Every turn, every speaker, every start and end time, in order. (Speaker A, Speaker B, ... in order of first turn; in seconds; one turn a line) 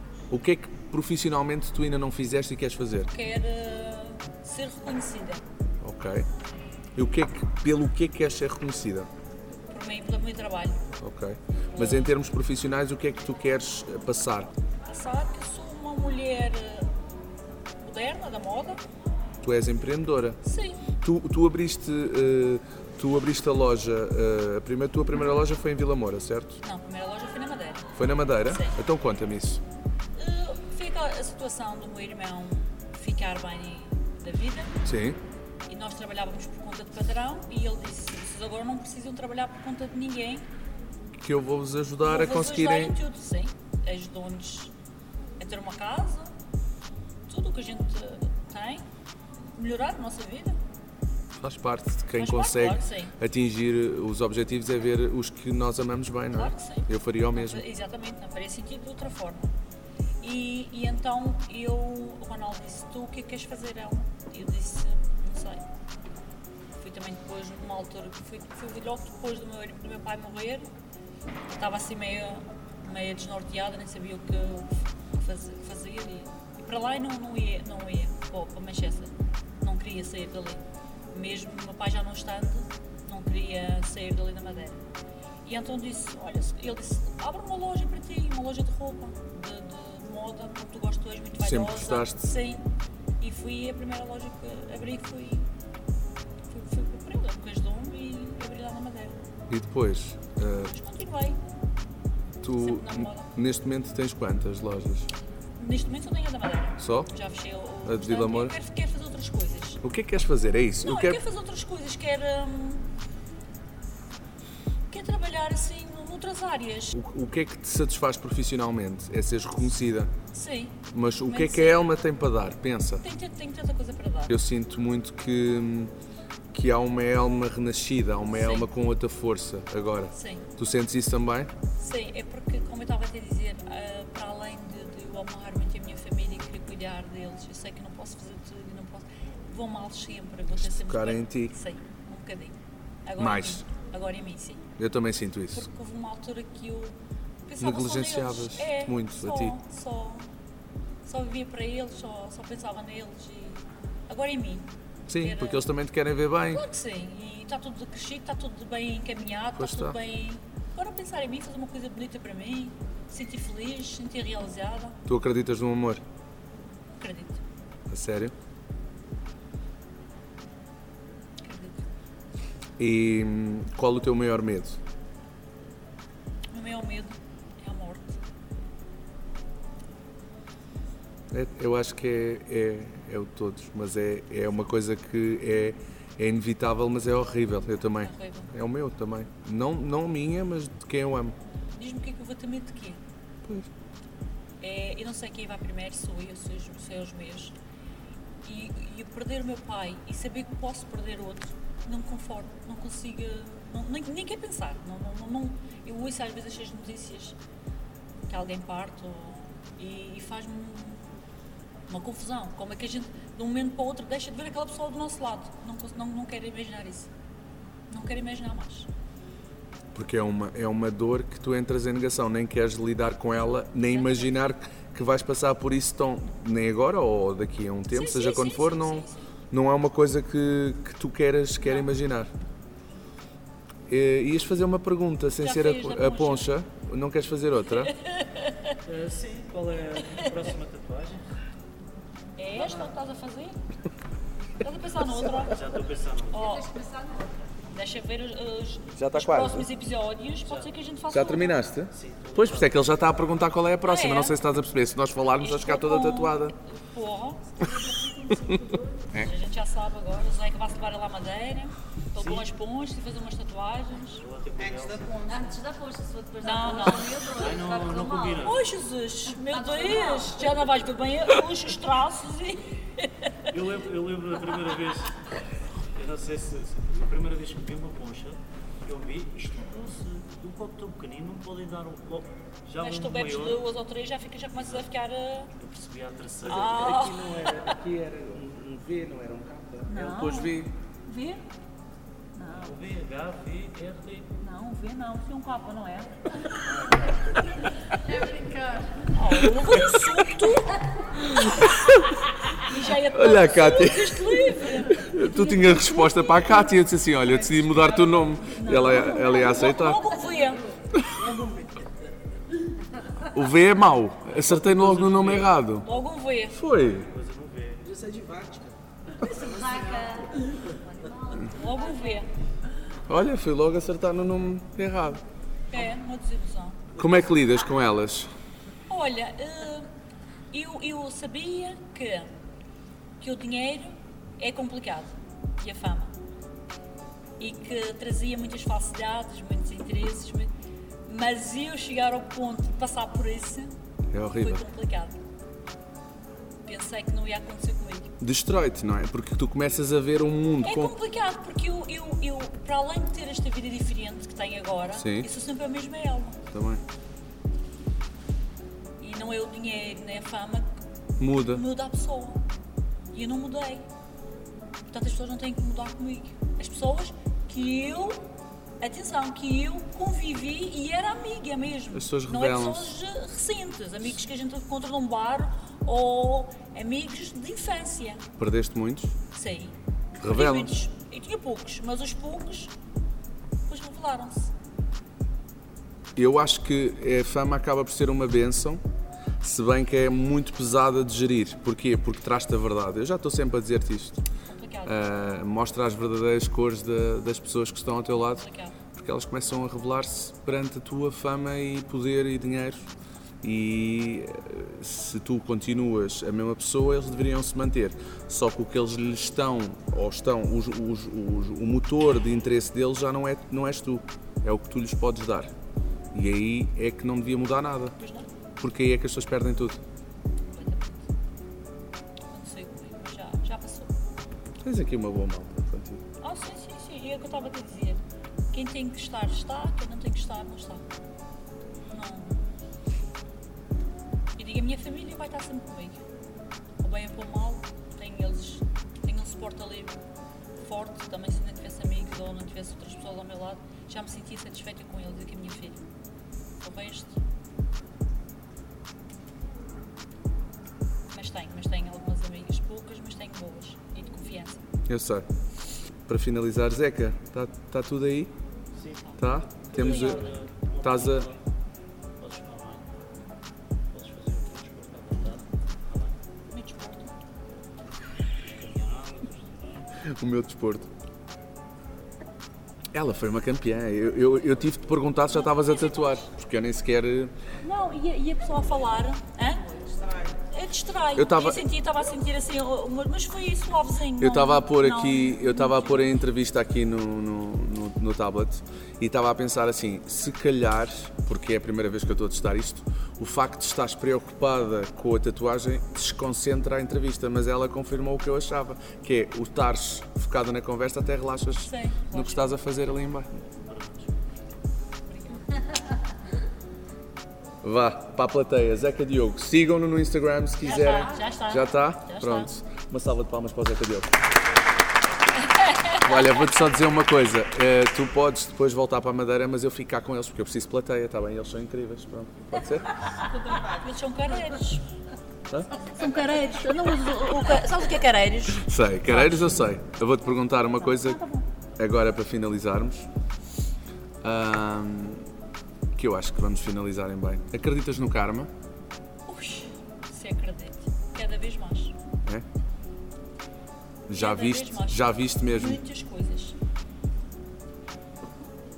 Speaker A: 0.3-3.1
Speaker B: 3.1-5.4
Speaker A: 5.8-6.2
Speaker A: 7.0-9.1
Speaker B: 9.7-10.8
Speaker A: 11.0-14.5
Speaker B: 11.7-12.1
Speaker B: 14.9-16.9
Speaker B: 17.8-18.8
Speaker A: 19.4-20.4
Speaker B: 20.4-20.8
Speaker A: 21.0-26.6
Speaker B: 26.6-28.8
Speaker A: 27.9-29.6
Speaker B: 30.1-34.8
Speaker A: 34.8-35.2
Speaker B: 35.7-40.5
Speaker A: 41.2-43.0
Speaker B: 42.0-44.7
Speaker B: 45.4-46.3
Speaker B: 47.3-48.8
Speaker B: 49.5-50.6
Speaker A: 51.4-57.6
Speaker B: 52.2-53.1
Speaker B: 56.3-59.5
Speaker B: 60.2-65.6
Speaker B: 66.8-70.7
Speaker B: 71.5-84.8
Speaker B: 85.4-92.6
Speaker A: 91.4-92.2
Speaker B: 93.2-95.5
Speaker B: 96.5-99.2
Speaker A: 99.5-100.7
Speaker B: 100.6-101.4
Speaker A: 102.4-105.1
Speaker B: 102.6-103.3
Speaker B: 105.6-109.8
Speaker A: 106.8-107.1
Speaker A: 107.8-108.5
Speaker A: 109.8-111.2
Speaker B: 110.8-112.9
Speaker B: 114.9-117.0
Speaker A: 116.9-120.1
Speaker B: 120.3-121.8
Speaker A: 120.9-123.0
Speaker B: 123.0-124.3
Speaker A: 124.3-125.9
Speaker A: 126.5-131.5
Speaker B: 128.3-128.7
Speaker B: 130.1-130.5
Speaker B: 131.8-142.5
Speaker A: 140.6-141.5
Speaker B: 143.1-144.7
Speaker A: 143.2-143.6
Speaker A: 144.8-145.7
Speaker B: 145.5-150.3
Speaker A: 147.6-149.6
Speaker B: 151.0-154.7
Speaker A: 155.1-156.6
Speaker B: 155.2-155.6
Speaker B: 156.5-165.0
Speaker A: 159.6-160.0
Speaker A: 165.1-166.0
Speaker B: 167.0-167.4
Speaker A: 167.9-168.3
Speaker B: 171.4-171.8
Speaker A: 172.8-174.8
Speaker B: 176.5-178.2
Speaker A: 181.3-191.3
Speaker B: 188.0-188.5
Speaker B: 191.7-193.0
Speaker B: 194.6-197.5
Speaker B: 198.4-207.3
Speaker B: 208.3-211.0
Speaker B: 211.9-217.1
Speaker B: 217.9-218.9
Speaker A: 219.9-232.3
Speaker B: 223.9-224.5
Speaker B: 227.9-229.2
Speaker B: 231.6-231.9
Speaker A: 233.9-237.9
Speaker B: 235.4-236.5
Speaker B: 237.7-238.8
Speaker C: 238.8-241.2
Speaker B: 242.4-243.6
Speaker C: 242.5-242.9
Speaker B: 244.6-245.5
Speaker C: 245.4-246.6
Speaker B: 246.3-246.7
Speaker D: 246.3-247.5
Speaker B: 247.7-251.6
Speaker A: 248.9-249.7
Speaker C: 250.4-250.7
Speaker A: 251.1-256.5
Speaker C: 251.9-253.0
Speaker B: 253.8-254.3
Speaker B: 255.4-257.6
Speaker B: 259.1-264.2
Speaker C: 262.1-262.5
Speaker C: 264.2-265.1
Speaker E: 264.6-265.5
Speaker D: 265.3-268.5
Speaker B: 266.4-267.2
Speaker C: 267.4-268.6
Speaker B: 268.4-273.5
Speaker D: 269.3-270.4
Speaker C: 273.5-275.2
Speaker C: 275.9-283.6
Speaker B: 282.8-285.5
Speaker C: 284.5-284.9
Speaker C: 285.6-287.1
Speaker B: 286.4-287.8
Speaker A: 286.8-290.7
Speaker B: 289.9-291.4
Speaker B: 292.4-292.8
Speaker C: 292.6-294.3
Speaker B: 294.4-296.1
Speaker E: 298.1-298.9
Speaker B: 299.1-300.8
Speaker B: 301.4-301.6
Speaker A: 301.4-302.0
Speaker B: 302.6-306.6
Speaker A: 303.1-304.2
Speaker A: 304.9-310.0
Speaker E: 307.3-308.4
Speaker B: 308.5-310.6
Speaker D: 309.8-310.6
Speaker F: 311.0-311.9
Speaker A: 313.3-315.8
Speaker C: 314.4-316.1
Speaker B: 315.8-316.6
Speaker A: 316.5-317.1
Speaker C: 316.7-317.9
Speaker F: 317.8-318.7
Speaker D: 319.2-322.2
Speaker F: 319.3-320.4
Speaker B: 321.5-322.3
Speaker A: 323.1-325.2
Speaker B: 325.7-326.8
Speaker A: 327.0-328.3
Speaker B: 328.9-329.9
Speaker B: 330.5-332.3
Speaker B: 333.2-336.1
Speaker B: 337.4-340.5
Speaker B: 341.1-343.7
Speaker A: 344.1-344.6
Speaker B: 344.4-345.2
Speaker B: 346.6-348.1
Speaker A: 348.2-350.9
Speaker B: 350.6-356.4
Speaker A: 354.9-355.3
Speaker A: 356.5-356.8
Speaker B: 359.0-360.7
Speaker A: 361.2-361.6
Speaker B: 361.4-362.4
Speaker B: 363.1-363.9
Speaker B: 364.9-368.2
Speaker B: 368.8-378.2
Speaker A: 371.9-372.9
Speaker A: 378.4-379.1
Speaker B: 379.3-382.7
Speaker A: 380.2-380.7
Speaker B: 383.7-384.5
Speaker A: 386.1-388.8
Speaker A: 389.4-394.2
Speaker B: 394.4-395.1
Speaker A: 394.8-402.9
Speaker B: 398.1-398.7
Speaker A: 403.4-415.5
Speaker A: 416.1-417.9
Speaker B: 418.0-418.3
Speaker A: 418.6-419.8
Speaker B: 420.5-421.0
Speaker B: 422.3-423.9
Speaker A: 424.6-426.0
Speaker B: 426.2-428.0
Speaker B: 428.5-430.8
Speaker B: 431.9-432.4
Speaker B: 434.4-436.0
Speaker B: 436.8-439.9
Speaker B: 440.6-445.8
Speaker B: 446.6-447.1
Speaker B: 451.1-454.6
Speaker A: 454.9-455.2
Speaker A: 456.1-458.3
Speaker C: 458.7-461.4
Speaker A: 459.2-460.2
Speaker B: 459.7-460.4
Speaker A: 460.8-461.3
Speaker C: 462.2-462.9
Speaker C: 463.9-466.2
Speaker B: 466.5-467.1
Speaker C: 468.4-469.9
Speaker A: 470.1-470.9
Speaker A: 472.9-477.3
Speaker B: 475.3-476.3
Speaker B: 477.6-479.6
Speaker E: 479.5-480.4
Speaker B: 480.5-486.1
Speaker A: 481.2-481.6
Speaker A: 484.2-503.3
Speaker B: 501.6-502.6
Speaker C: 503.4-504.3
Speaker B: 505.1-505.6
Speaker A: 507.6-514.1
Speaker B: 510.6-512.5
Speaker B: 515.5-516.6
Speaker A: 516.0-522.9
Speaker B: 523.1-524.9
Speaker E: 523.3-523.8
Speaker B: 525.7-529.6
Speaker A: 528.6-531.2
Speaker B: 530.8-531.4
Speaker A: 531.8-533.1
Speaker A: 534.2-535.2
Speaker A: 536.0-538.5
Speaker B: 539.3-541.9
Speaker A: 544.1-545.8
Speaker B: 544.1-546.5